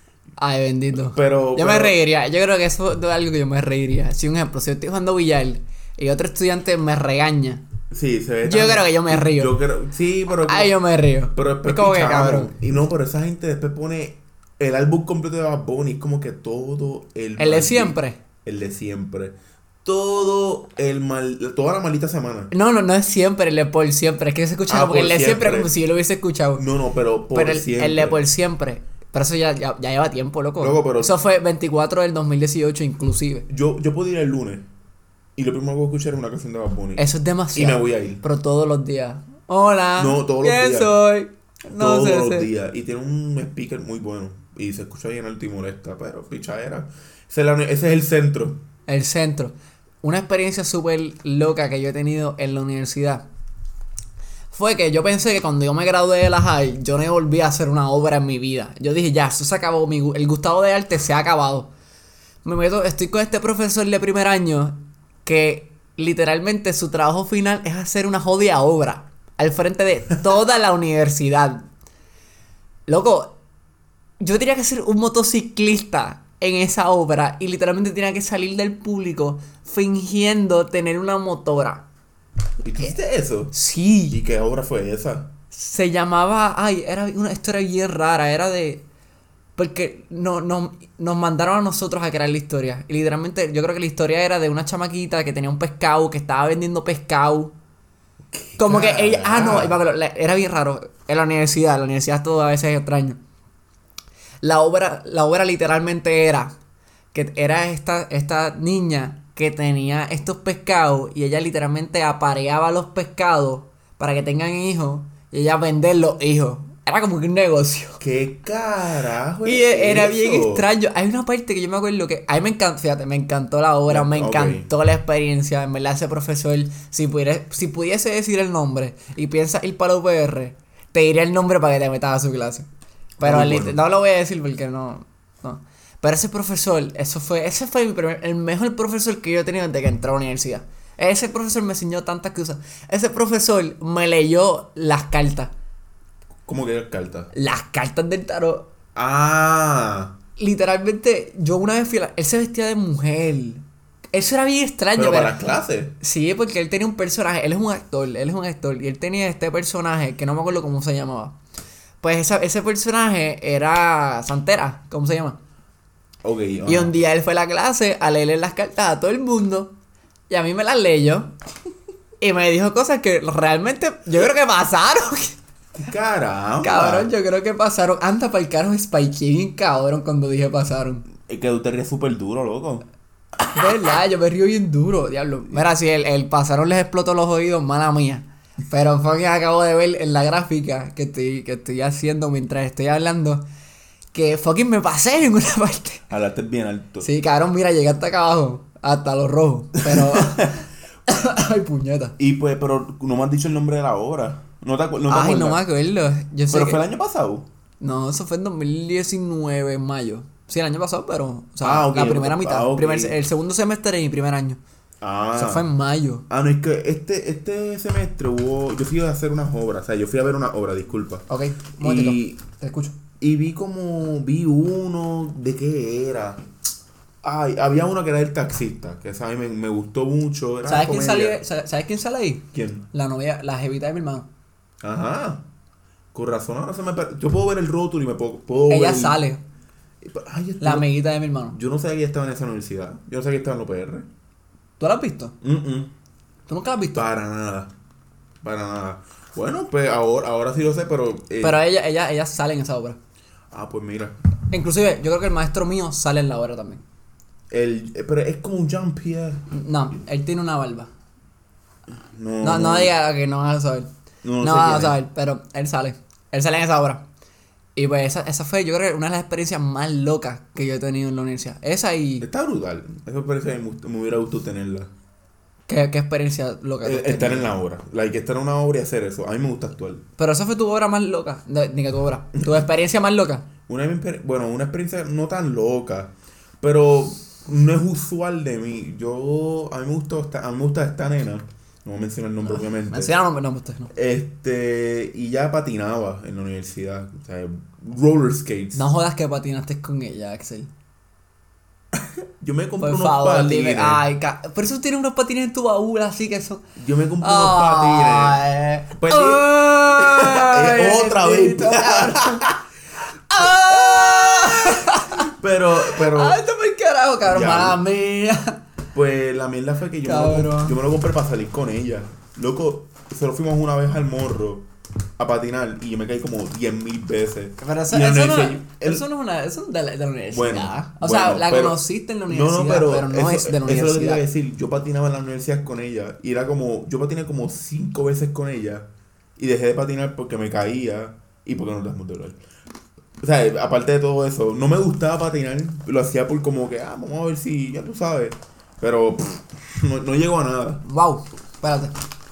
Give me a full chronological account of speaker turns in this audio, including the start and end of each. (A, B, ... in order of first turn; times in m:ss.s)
0:00.4-0:07.6 A
0:01.0-0:02.0 B
0:07.9-0:10.8 B
0:08.4-0:09.6 A
0:10.3-0:12.5 A
0:11.3-0:22.5 B
0:17.4-0:18.2 A
0:22.5-0:26.6 A
0:24.7-0:25.7 B
0:26.6-0:28.2 B
0:27.3-0:33.5 A
0:30.6-0:31.2 B
0:33.5-0:34.7 B
0:35.4-0:38.2 B
0:37.0-0:42.5 A
0:40.0-0:40.9 B
0:41.8-0:48.6 B
0:48.9-0:53.2 A
0:54.5-1:01.7 A
1:02.4-1:11.6 A
1:12.9-1:13.4 A
1:14.2-1:21.8 A
1:22.6-1:23.5 B
1:23.5-1:24.2 A
1:24.1-1:25.3 B
1:25.5-1:28.8 A
1:29.6-1:37.5 A
1:38.3-1:39.8 B
1:38.6-1:43.2 A
1:44.4-1:46.5 A
1:47.1-1:58.0 A
1:58.0-2:00.7 B
1:59.4-2:12.7 A
2:03.9-2:04.7 B
2:13.2-2:13.8 B
2:13.2-2:25.5 A
2:26.5-2:27.3 B
2:27.3-2:28.7 A
2:29.0-2:30.1 B
2:30.4-2:35.3 A
2:35.0-2:36.0 B
2:36.0-2:41.4 A
2:42.0-2:45.4 A
2:46.2-2:46.9 B
2:46.7-2:49.7 A
2:50.3-2:51.3 A
2:52.2-2:55.4 A
2:55.8-2:57.1 B
2:56.6-3:01.1 A
3:01.2-3:02.8 B
3:03.5-3:13.4 A
3:14.1-3:16.0 A
3:16.1-3:17.1 B
3:17.0-3:22.2 A
3:19.8-3:20.6 B
3:22.2-3:25.6 B
3:25.1-3:26.8 A
3:26.5-3:27.5 B
3:27.8-3:34.6 A
3:31.6-3:33.2 B
3:35.0-3:35.7 B
3:35.3-3:36.3 A
3:36.3-3:41.2 B
3:41.3-3:43.0 A
3:41.8-3:42.4 B
3:43.2-3:46.4 B
3:47.2-3:51.4 B
3:50.7-3:54.3 A
3:52.5-3:52.9 B
3:54.8-3:55.4 B
3:56.1-3:59.2 B
3:58.7-3:59.4 A
4:00.0-4:00.9 B
4:00.6-4:01.6 A
4:01.5-4:04.1 B
4:04.8-4:05.4 A
4:05.4-4:05.9 B
4:06.5-4:07.1 A
4:06.9-4:07.7 B
4:08.4-4:11.6 B
4:11.4-4:13.0 A
4:13.5-4:14.2 B
4:14.5-4:16.8 A
4:17.5-4:19.5 B
4:19.5-4:20.9 A
4:21.9-4:22.9 B
4:22.4-4:23.9 A
4:24.2-4:25.0 B
4:24.4-4:27.0 A
4:27.8-4:32.3 A
4:32.2-4:34.9 B
4:35.7-4:37.5 A
4:36.8-4:40.0 B
4:40.2-4:43.5 A
4:43.7-4:53.1 B
4:52.5-4:53.9 A
4:53.9-4:58.8 B
4:58.7-5:00.7 A
5:02.0-5:04.0 B
5:02.8-5:06.6 A
5:06.8-5:08.4 B
5:07.2-5:12.5 A
5:09.0-5:12.6 B
5:13.3-5:18.6 A
5:13.4-5:16.4 B
5:17.2-5:17.8 B
5:18.9-5:29.1 B
5:20.0-5:20.8 A
5:27.6-5:34.2 A
5:30.3-5:38.9 B
5:39.4-5:42.4 B
5:43.2-5:50.8 B
5:50.8-5:51.9 A